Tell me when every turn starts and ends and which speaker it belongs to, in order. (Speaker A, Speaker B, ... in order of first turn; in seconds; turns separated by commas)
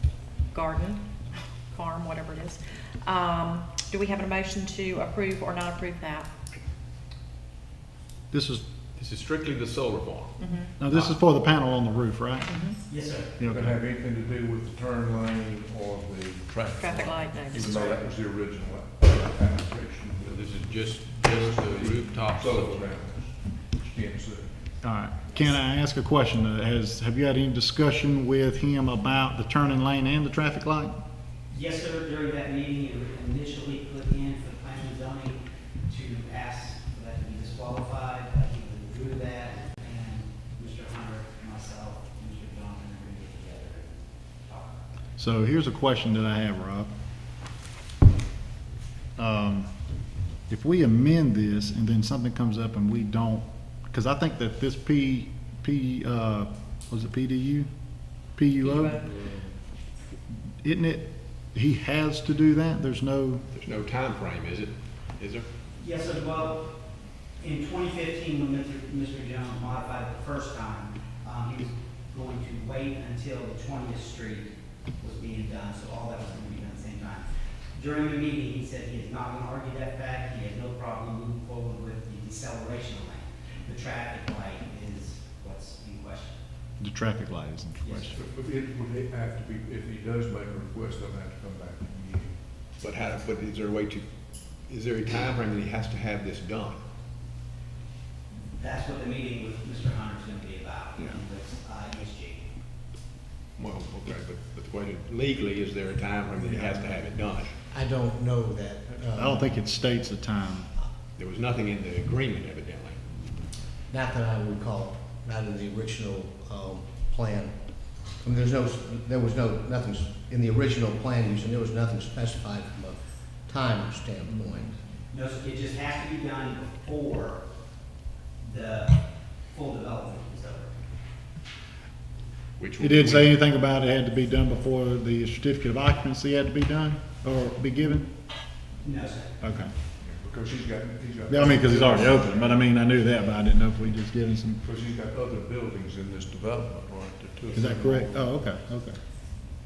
Speaker A: 0.5-1.0, Speaker A: 1.7-6.3, Speaker B: 8.3-8.6, Speaker C: 8.9-10.3, Speaker A: 10.4-10.7, Speaker B: 10.8-12.5, Speaker C: 10.9-11.1, Speaker A: 12.4-12.8, Speaker D: 12.9-13.4, Speaker B: 13.4-13.7, Speaker E: 13.4-24.7, Speaker A: 16.8-17.9, Speaker C: 17.5-18.0, Speaker C: 20.2-22.9, Speaker B: 24.8-30.9, Speaker D: 31.5-44.8, Speaker B: 45.2-46.9, Speaker B: 49.2-49.7, Speaker B: 50.5-57.7, Speaker B: 58.3-59.0, Speaker A: 58.6-59.1, Speaker E: 59.0-59.5, Speaker B: 60.6-63.4, Speaker C: 63.5-65.5, Speaker D: 65.8-66.7, Speaker D: 67.4-86.4, Speaker B: 86.8-88.2, Speaker D: 87.8-88.2, Speaker E: 88.1-92.3, Speaker C: 92.8-94.0, Speaker C: 94.7-96.8, Speaker D: 98.6-102.5, Speaker C: 103.6-107.5, Speaker F: 106.4-107.0, Speaker F: 107.7-109.4, Speaker B: 109.1-110.7, Speaker C: 111.2-113.0, Speaker F: 113.9-117.5, Speaker F: 118.2-124.8, Speaker D: 125.1-127.4, Speaker D: 128.4-130.7, Speaker C: 132.6-133.4, Speaker B: 132.8-138.1, Speaker D: 138.8-139.3, Speaker B: 139.4-139.7, Speaker E: 140.0-142.6, Speaker B: 141.3-144.6, Speaker E: 144.6-148.3, Speaker B: 147.5-149.0